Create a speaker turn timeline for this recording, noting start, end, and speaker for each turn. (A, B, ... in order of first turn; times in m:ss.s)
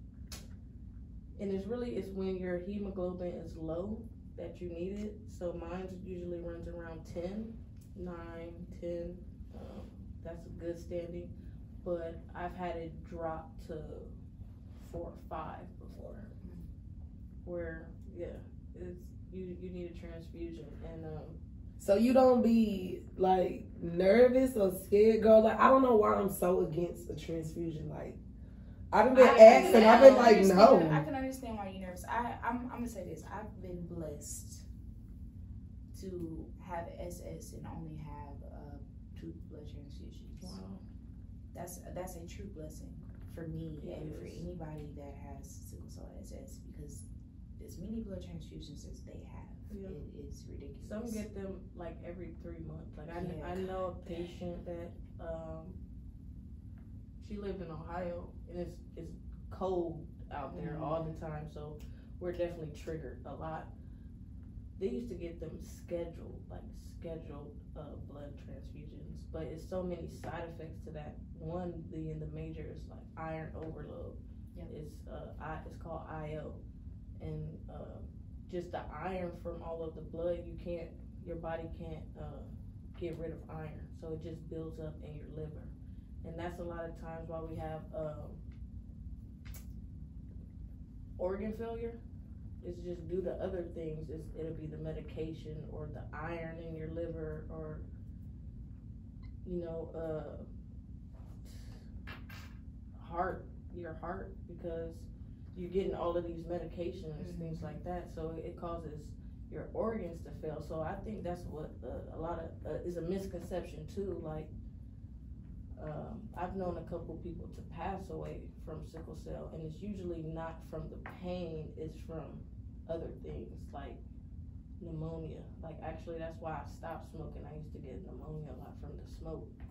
0:01.4-0:11.3 A
0:11.8-0:14.1 A
0:14.8-0:16.3 A
0:16.4-0:16.7 B
0:17.4-0:21.4 A
0:21.8-0:28.2 C
0:28.9-0:31.0 C
0:29.1-0:34.6 B
0:29.2-0:30.6 A
0:35.9-0:40.6 B
0:40.4-0:40.8 A
0:41.5-0:47.0 B
0:43.8-0:44.4 A
0:47.6-0:51.2 B
0:49.7-0:50.0 A
0:50.8-0:55.8 A
0:53.1-0:53.7 B
0:57.2-1:03.7 A
1:00.5-1:01.2 B
1:04.8-1:14.2 A
1:14.7-1:16.6 A
1:17.2-1:25.7 A
1:26.2-1:28.4 A
1:31.2-1:32.0 A
1:32.6-1:37.8 A
1:39.4-1:40.4 A
1:41.4-1:41.7 A
1:43.0-1:54.5 A
1:47.2-1:47.8 B
1:55.8-2:04.0 A
2:04.8-2:09.5 A